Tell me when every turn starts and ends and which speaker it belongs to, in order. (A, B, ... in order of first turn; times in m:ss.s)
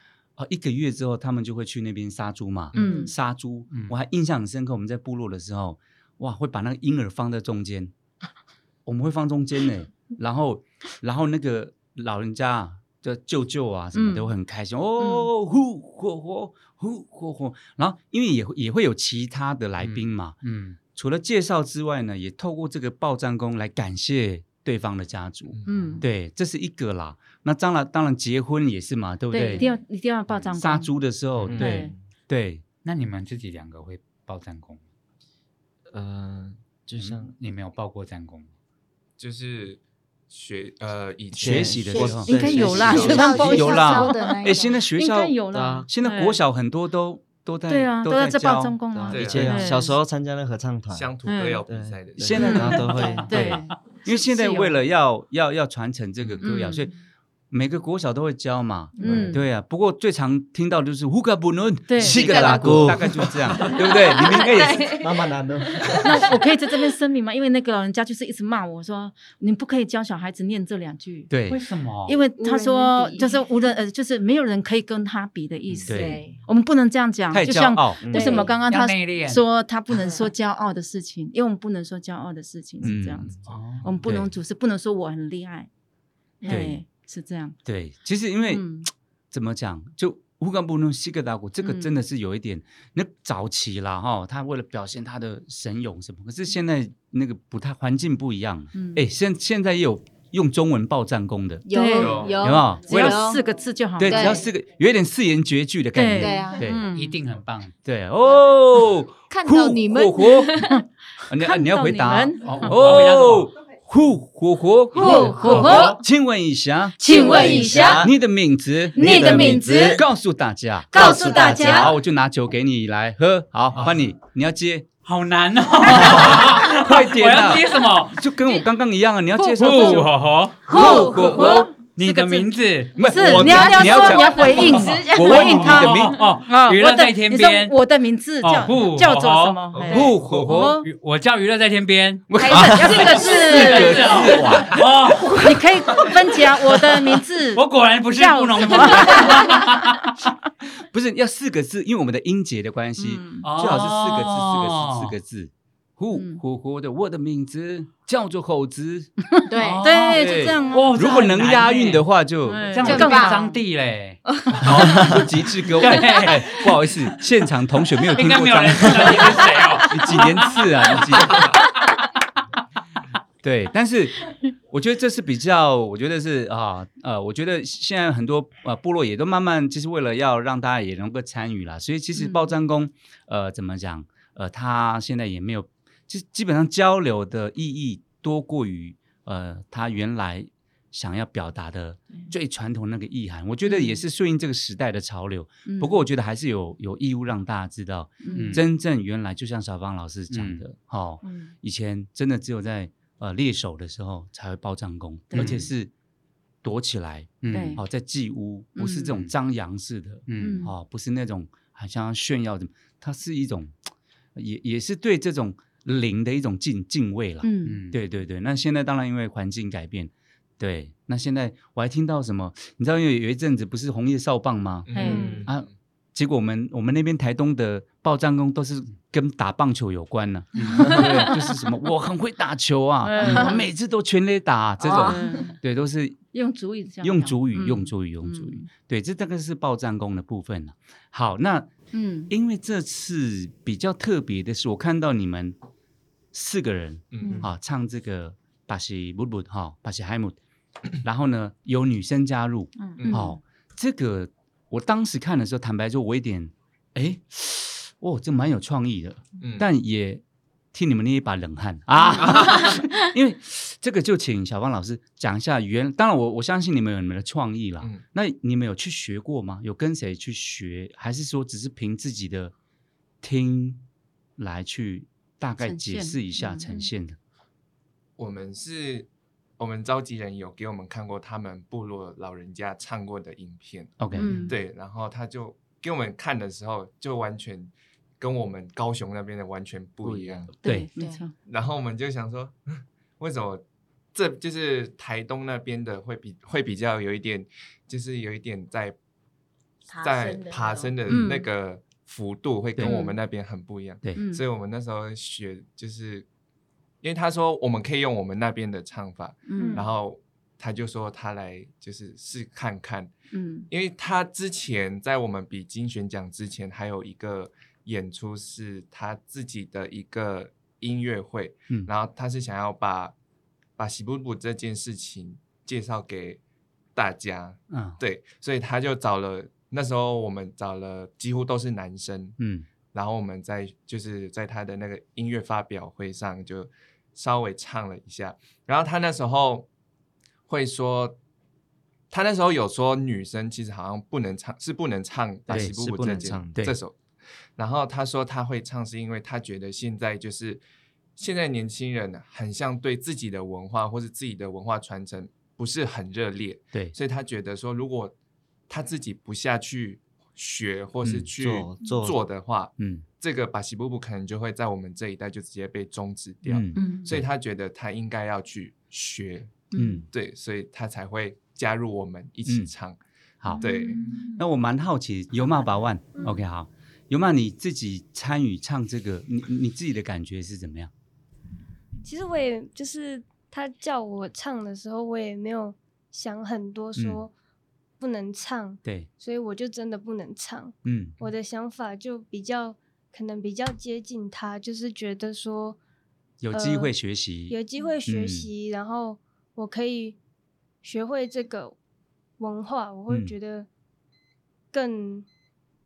0:00.4-0:07.9 A
0:02.7-0:03.0 B
0:02.7-0:03.1 C
0:03.7-0:04.0 B
0:08.8-0:20.4 A
0:13.9-0:14.3 C
0:15.0-0:15.3 C
0:19.8-0:20.8 B
0:20.9-0:29.7 A
0:25.5-0:25.9 D
0:25.6-0:26.0 C
0:29.3-0:30.9 C
0:30.5-0:32.6 A
0:31.4-0:31.7 B
0:31.4-0:32.0 E
0:31.6-0:31.9 C
0:32.8-0:34.8 B
0:35.9-0:37.3 E
0:37.0-0:38.5 B
0:39.2-0:43.3 D
0:41.4-0:43.4 E
0:41.4-0:45.4 A
0:41.8-0:44.8 F
0:42.2-0:46.4 C
0:45.5-0:45.9 E
0:45.9-0:48.8 A
0:47.7-0:50.0 C
0:48.9-0:51.1 E
0:49.1-0:49.7 D
0:50.9-0:52.8 D
0:51.2-0:51.6 C
0:51.7-0:53.5 E
0:52.2-0:56.9 A
0:52.3-0:54.8 C
0:56.2-0:56.5 D
0:56.4-0:56.9 C
0:57.5-1:05.0 A
0:59.0-0:59.4 C
0:59.0-0:59.4 E
1:01.9-1:02.5 C
1:02.0-1:03.6 E
1:02.0-1:06.1 F
1:04.9-1:06.3 E
1:06.0-1:11.3 C
1:11.3-1:11.6 A
1:11.5-1:12.2 B
1:12.0-1:25.7 C
1:12.4-1:13.4 F
1:15.9-1:16.2 A
1:15.9-1:16.4 F
1:17.3-1:18.0 A
1:18.0-1:18.4 E
1:18.0-1:18.6 F
1:18.6-1:19.4 B
1:19.9-1:20.3 F
1:22.8-1:23.3 A
1:23.5-1:23.9 B
1:24.0-1:24.3 A
1:26.4-1:27.6 C
1:26.5-1:26.8 A
1:27.6-1:28.7 A
1:28.4-1:28.9 C
1:29.3-1:41.7 A
1:31.6-1:31.9 C
1:38.7-1:39.0 C
1:41.6-1:43.4 F
1:41.7-1:44.4 C
1:41.9-1:42.4 D
1:42.4-1:43.4 A
1:44.0-1:46.8 A
1:44.0-1:44.5 F
1:45.9-1:47.2 C
1:46.1-1:46.7 F
1:46.9-1:47.7 B
1:47.8-1:50.7 A
1:49.3-1:50.7 F
1:50.6-1:53.0 C
1:51.3-2:04.9 A
1:52.4-1:53.5 B
1:54.9-1:56.0 C
1:55.1-1:56.0 B
1:57.0-1:58.1 C
1:57.0-1:58.0 F
1:57.1-1:58.1 E
1:58.9-2:00.0 C
1:59.0-2:00.0 E
2:00.9-2:01.9 C
2:00.9-2:01.8 E
2:05.0-2:08.2 B
2:05.8-2:10.1 A
2:09.4-2:10.1 C
2:09.6-2:13.1 B
2:10.6-2:12.3 A
2:10.6-2:20.9 C
2:13.0-2:16.2 A
2:13.1-2:15.6 F
2:14.4-2:17.8 B
2:18.4-2:19.7 B
2:19.7-2:20.5 D
2:19.9-2:20.8 A
2:20.5-2:26.2 B
2:22.3-2:26.0 A
2:22.4-2:24.5 C
2:22.4-2:24.0 F
2:25.4-2:29.7 C
2:26.8-2:30.3 B
2:30.9-2:39.2 A
2:33.0-2:33.4 C
2:33.4-2:35.2 B
2:36.1-2:36.4 C
2:39.3-2:41.3 C
2:39.5-2:39.9 F
2:39.6-2:42.1 B
2:40.1-2:42.9 A
2:42.4-2:43.6 C
2:42.7-2:44.2 B
2:42.8-2:43.5 F
2:44.6-2:51.5 A
2:45.7-2:46.7 B
2:48.1-2:52.0 B
2:53.4-3:25.9 A
3:02.1-3:02.5 C
3:13.6-3:14.0 C
3:15.6-3:16.0 C
3:18.2-3:18.6 C
3:18.3-3:18.6 B
3:20.3-3:20.6 B
3:25.3-3:25.6 C
3:25.3-3:25.6 B
3:26.6-3:33.7 A
3:27.4-3:27.8 B
3:27.5-3:27.8 C
3:28.8-3:29.1 C
3:30.3-3:30.7 B
3:30.4-3:30.7 C
3:34.4-3:56.2 A
3:37.4-3:37.8 C
3:37.6-3:38.0 B
3:44.8-3:45.7 D
3:44.9-3:45.4 C
3:45.1-3:45.4 F
3:50.5-3:50.9 B
3:50.6-3:51.5 C
3:53.0-3:53.7 C
3:54.8-3:55.5 F
3:54.8-3:55.6 C
3:56.3-3:58.7 C
3:57.0-4:01.7 A
4:01.9-4:02.3 C
4:02.3-4:05.6 A
4:06.3-4:10.4 A
4:07.1-4:07.5 D
4:11.0-4:20.2 A
4:13.0-4:13.3 D
4:13.0-4:13.4 C
4:19.4-4:19.7 D
4:20.7-4:32.5 A
4:22.2-4:22.7 D
4:33.2-4:33.8 A
4:34.4-4:37.2 A
4:35.6-4:36.7 C
4:38.2-4:50.5 D
4:44.0-4:44.4 A
4:44.2-4:44.4 B
4:44.2-4:44.5 C
4:50.0-4:50.5 E
4:50.6-4:51.3 C
4:51.0-4:51.3 F
4:51.4-4:59.0 D
4:59.9-5:01.2 F
5:00.0-5:06.3 D
5:01.1-5:01.5 C
5:02.8-5:03.2 C
5:04.2-5:04.4 C
5:07.0-5:13.1 D
5:09.5-5:09.8 C
5:09.5-5:09.9 F
5:13.3-5:13.7 C
5:13.7-5:23.1 D
5:23.8-5:26.4 D
5:26.9-5:32.4 D
5:27.7-5:28.0 A
5:32.4-5:32.6 A
5:32.9-5:39.7 D
5:40.5-5:41.2 D
5:42.1-5:47.0 D
5:45.5-5:46.6 E
5:45.5-5:45.8 A
5:47.6-5:50.6 D
5:51.2-5:58.1 D
5:58.7-6:13.0 D
6:01.4-6:02.2 E
6:02.8-6:03.0 A
6:06.4-6:07.2 A
6:06.8-6:07.1 C
6:09.7-6:10.0 C
6:09.7-6:10.0 A
6:12.4-6:12.7 A
6:13.4-6:20.9 A
6:13.5-6:14.3 C
6:13.6-6:14.0 D
6:22.0-6:27.3 G
6:26.9-6:27.2 A
6:28.0-6:35.8 G
6:28.8-6:29.1 A
6:30.8-6:31.2 A
6:36.4-6:38.5 A
6:36.5-6:36.9 G
6:37.5-6:40.2 G
6:40.8-6:41.8 G
6:42.4-6:43.7 G
6:43.1-6:43.3 A
6:44.7-6:45.2 G